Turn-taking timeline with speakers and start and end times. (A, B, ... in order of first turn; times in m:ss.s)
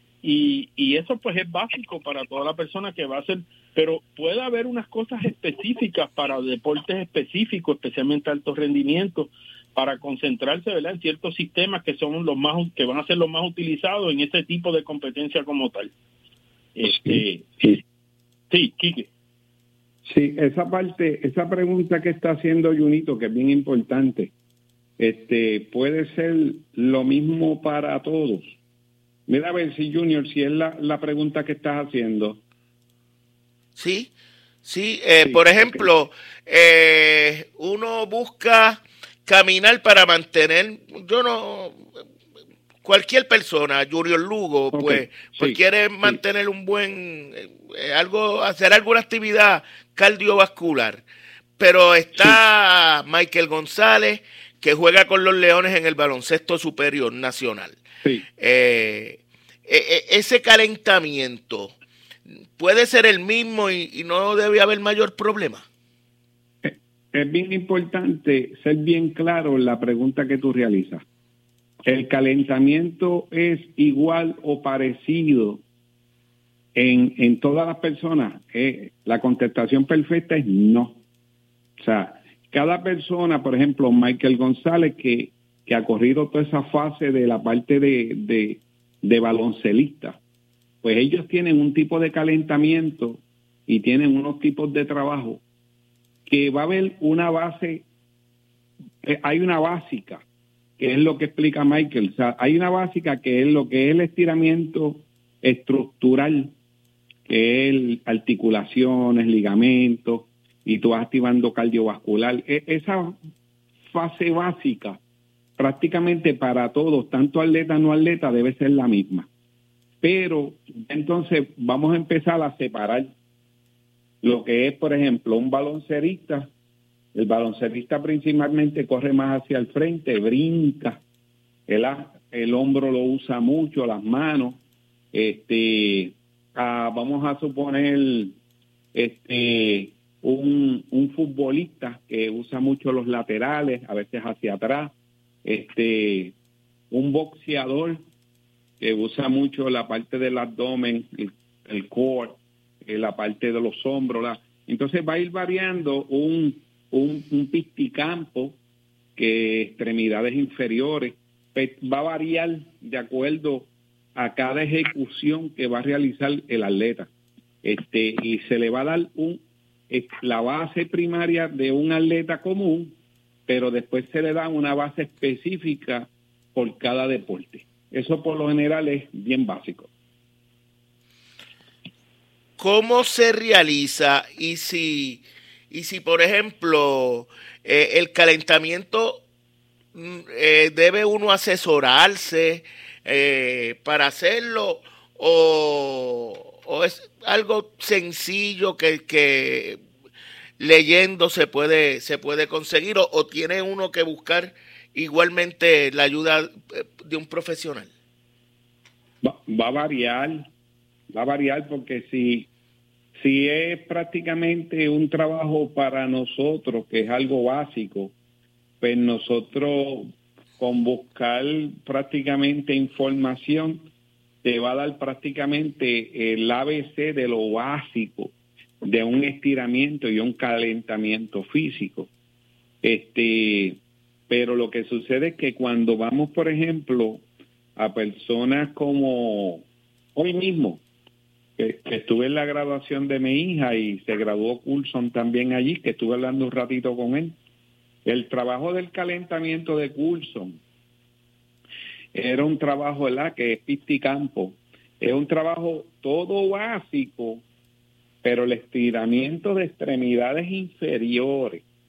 0:00.2-0:15.9 A
0:16.8-0:17.8 A
0:18.5-0:19.1 A
0:20.0-0:24.3 B
0:25.0-0:28.5 B
0:29.3-0:32.4 B
0:33.8-0:34.1 C
0:34.6-0:41.8 C
0:35.2-0:35.9 B
0:42.8-0:51.0 C
0:44.7-0:46.2 B
0:51.6-0:57.8 C
0:58.4-1:01.8 C
1:02.6-1:05.6 C
1:06.6-1:11.0 B
1:11.8-1:15.6 B
1:16.8-1:21.0 B
1:21.8-1:30.2 B
1:30.8-1:35.4 B
1:36.3-1:37.8 B
1:39.0-1:40.2 B
1:40.8-1:46.5 B
1:47.3-1:53.2 B
1:53.9-1:55.0 B
1:55.6-1:59.3 B
2:00.0-2:03.1 B
2:04.2-2:06.5 B
2:07.1-2:11.0 B
2:11.7-2:14.6 B
2:15.1-2:18.4 B
2:18.9-2:24.9 B
2:25.4-2:26.3 B
2:26.9-2:28.0 B
2:28.8-2:38.6 B
2:39.2-2:47.1 B
2:47.6-2:52.9 B
2:53.5-2:59.9 B
3:02.6-3:09.2 C
3:09.9-3:19.8 C
3:20.6-3:27.9 C
3:29.2-3:30.5 B
3:31.1-3:32.5 B
3:33.2-3:38.1 B
3:38.8-3:43.9 B
3:44.4-3:52.1 B
3:52.8-3:57.2 B
3:57.8-3:59.6 B
4:00.2-4:00.8 B
4:01.6-4:07.4 B
4:08.0-4:10.6 B
4:12.1-4:17.4 B
4:18.2-4:21.6 B